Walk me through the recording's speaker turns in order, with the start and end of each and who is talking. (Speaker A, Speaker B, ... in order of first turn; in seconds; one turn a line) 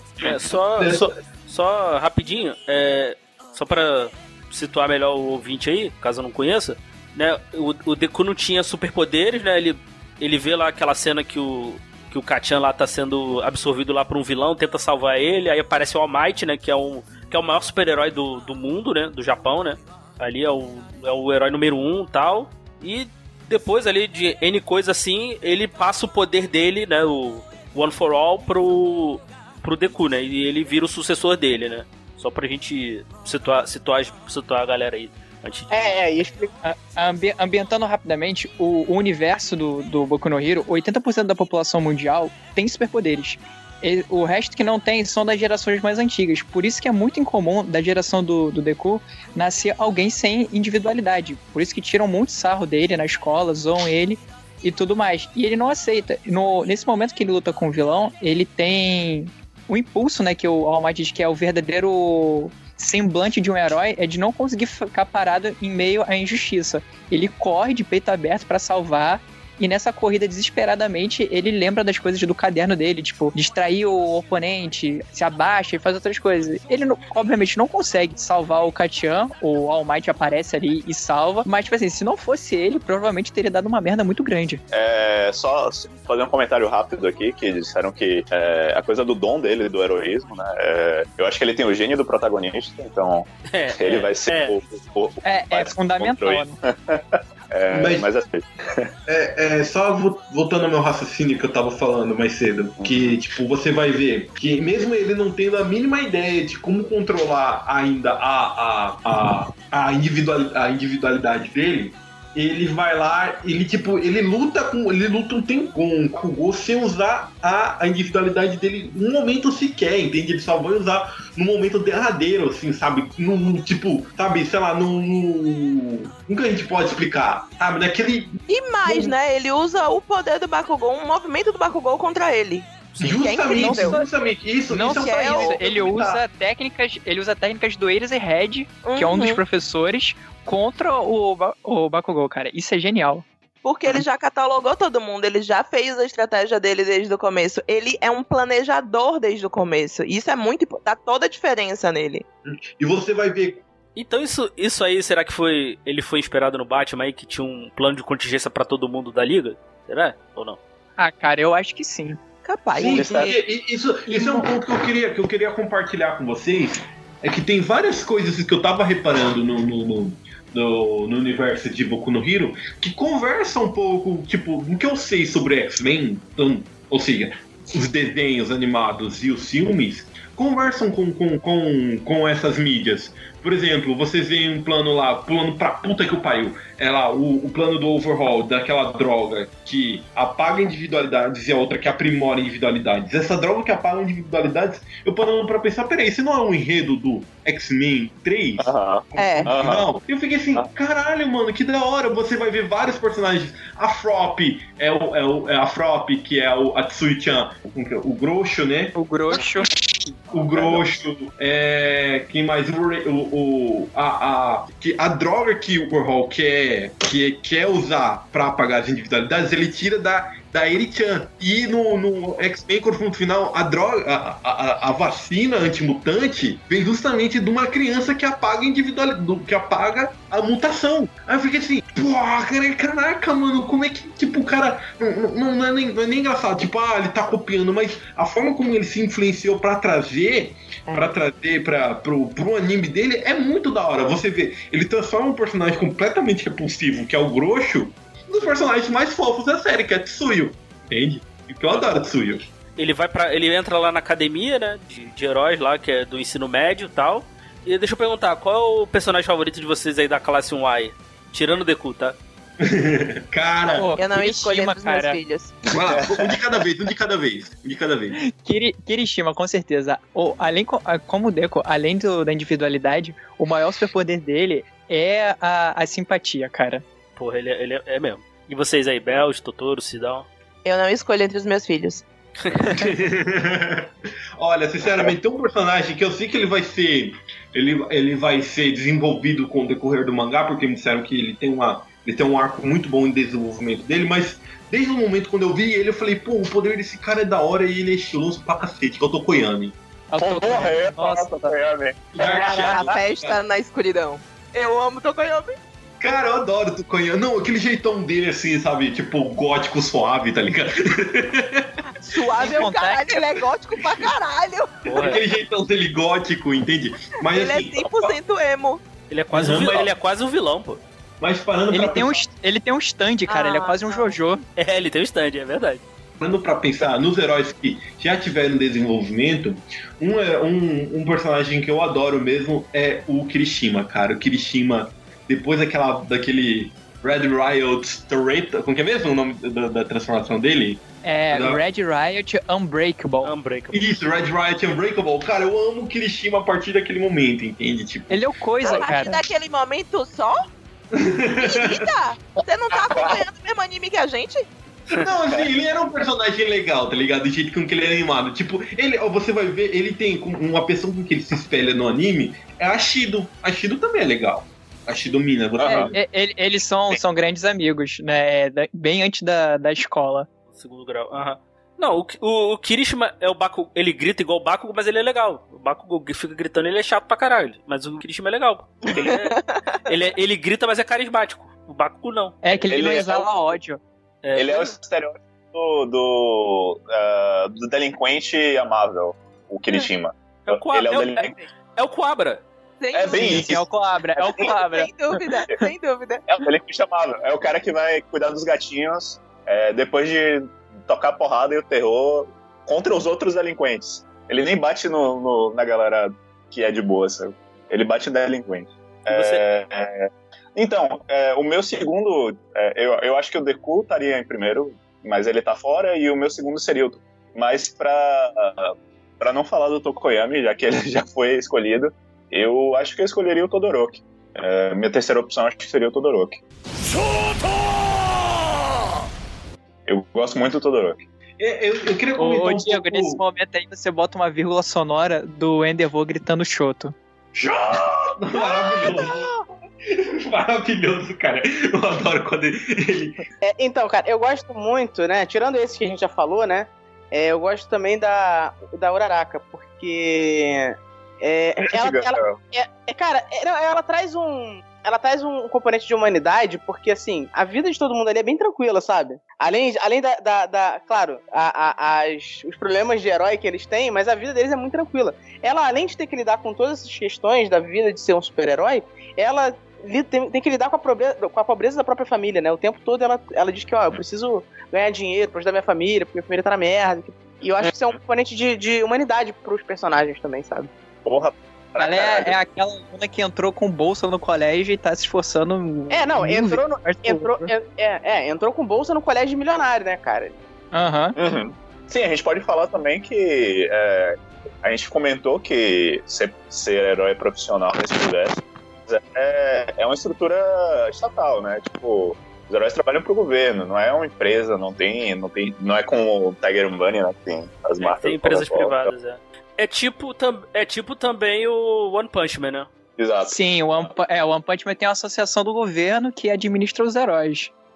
Speaker A: 0.2-36.0
Speaker B: 0.8-1.1
Speaker C: 35.7-36.5
Speaker D: 36.6-84.6
Speaker E: 84.7-98.9
Speaker A: 93.5-94.6
Speaker D: 95.2-96.5
Speaker B: 97.7-98.1
Speaker B: 99.1-129.2
Speaker F: 128.5-134.0
Speaker B: 133.0-136.2
Speaker D: 133.1-134.1
Speaker D: 134.7-143.2
Speaker F: 134.8-135.6
Speaker F: 138.8-139.4
Speaker F: 143.6-152.2
Speaker B: 152.8-153.6
Speaker A: 154.0-160.6
Speaker D: 161.0-162.2
Speaker F: 162.4-163.4
Speaker E: 162.8-163.3
Speaker B: 162.8-209.0
Speaker D: 164.1-164.4
Speaker E: 198.6-199.9
Speaker F: 199.2-199.5
Speaker D: 208.9-209.7
Speaker B: 210.3-252.5
Speaker E: 210.6-210.8
Speaker A: 251.7-252.0
Speaker A: 252.8-262.2
Speaker B: 262.6-263.9
Speaker D: 263.7-265.2
Speaker F: 264.0-265.6
Speaker B: 265.7-268.2
Speaker E: 265.8-266.4
Speaker D: 268.2-276.8
Speaker A: 277.2-280.3
Speaker F: 280.6-282.0
Speaker B: 282.7-299.8
Speaker D: 300.1-301.6
Speaker E: 300.2-302.1
Speaker B: 302.1-303.4
Speaker F: 302.2-305.6
Speaker D: 302.3-302.9
Speaker B: 306.0-311.7
Speaker F: 312.0-315.2
Speaker D: 312.4-313.2
Speaker B: 314.9-318.1
Speaker F: 317.2-318.8
Speaker A: 319.1-320.8
Speaker B: 319.3-319.9
Speaker B: 321.2-322.2
Speaker D: 321.7-324.4
Speaker F: 323.3-324.2
Speaker A: 324.6-325.8
Speaker B: 326.2-341.6
Speaker D: 341.0-343.3
Speaker A: 343.2-343.9
Speaker B: 343.7-348.2
Speaker D: 348.1-349.2
Speaker F: 348.6-350.4
Speaker B: 350.9-351.9
Speaker F: 351.4-354.5
Speaker E: 352.9-353.2
Speaker B: 354.9-365.9
Speaker E: 365.6-365.9
Speaker D: 365.6-370.3
Speaker A: 370.5-382.4
Speaker E: 378.9-379.2
Speaker F: 379.0-379.6
Speaker D: 382.4-383.8
Speaker E: 382.7-383.3
Speaker A: 384.2-384.7
Speaker E: 384.3-391.4
Speaker A: 390.5-392.4
Speaker F: 392.8-393.5
Speaker E: 392.9-393.6
Speaker D: 393.1-395.2
Speaker E: 394.2-394.5
Speaker F: 394.4-396.2
Speaker E: 396.3-426.4
Speaker A: 409.1-409.4
Speaker E: 429.9-431.0
Speaker B: 431.4-433.2
Speaker D: 432.2-437.0
Speaker B: 437.4-439.3
Speaker B: 439.9-443.2
Speaker C: 443.4-480.7
Speaker E: 451.7-452.4
Speaker E: 481.1-482.4
Speaker D: 481.8-487.5
Speaker C: 485.9-490.4
Speaker D: 490.7-491.2
Speaker E: 491.2-508.9
Speaker A: 507.8-512.7
Speaker E: 513.0-513.4
Speaker D: 513.3-517.5